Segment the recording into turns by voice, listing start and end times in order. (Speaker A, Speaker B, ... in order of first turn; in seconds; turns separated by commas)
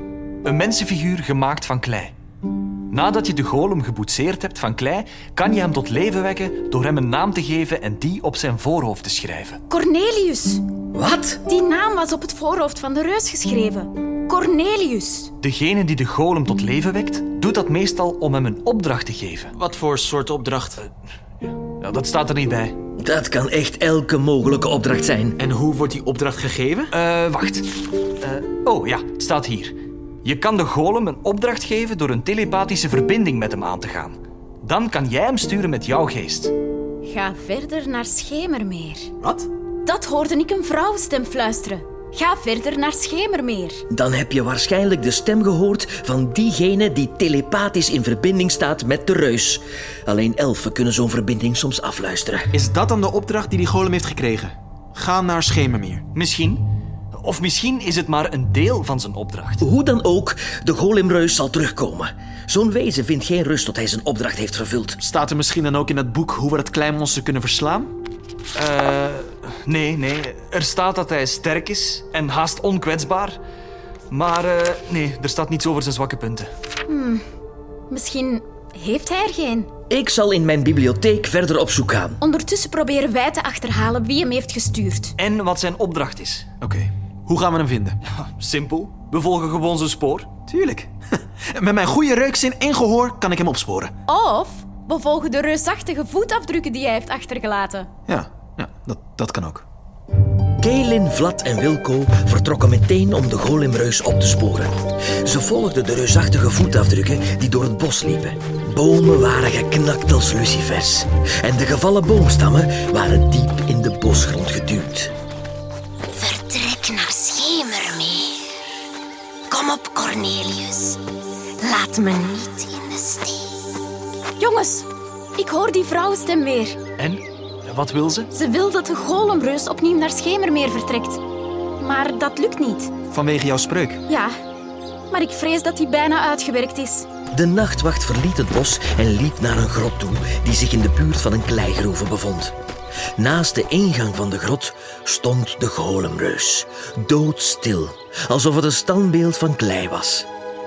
Speaker A: 0.4-2.1, Speaker A: 2.9-9.6, Speaker B: 9.7-10.6, Speaker C: 10.9-11.4, Speaker B: 11.5-15.3, Speaker A: 15.4-19.5, Speaker D: 19.5-20.8, Speaker A: 21.4-22.8, Speaker C: 23.0-25.4, Speaker D: 25.4-26.9, Speaker A: 26.9-27.7, Speaker A: 28.2-36.5, Speaker B: 37.0-39.1, Speaker B: 39.8-43.8, Speaker C: 43.9-52.5, Speaker D: 52.5-56.0, Speaker A: 56.1-56.6, Speaker A: 57.1-59.6, Speaker C: 59.6-65.0, Speaker D: 65.0-67.9, Speaker A: 68.5-73.4, Speaker A: 74.1-76.5, Speaker B: 76.9-77.2, Speaker B: 77.9-79.7, Speaker C: 79.9-82.2, Speaker B: 82.2-85.1, Speaker A: 85.2-86.5, Speaker D: 86.6-88.0, Speaker A: 88.1-90.3, Speaker D: 90.5-90.9, Speaker D: 91.5-93.9, Speaker B: 94.1-97.9, Speaker D: 98.1-99.6, Speaker C: 100.6-115.1, Speaker E: 116.1-118.4, Speaker E: 119.5-121.0, Speaker E: 121.6-123.4, Speaker B: 124.4-126.8, Speaker A: 127.0-128.3, Speaker B: 128.3-131.2, Speaker B: 131.8-132.9, Speaker D: 133.1-134.0, Speaker B: 134.1-134.3, Speaker B: 135.1-137.1, Speaker C: 137.3-142.5, Speaker C: 143.2-150.3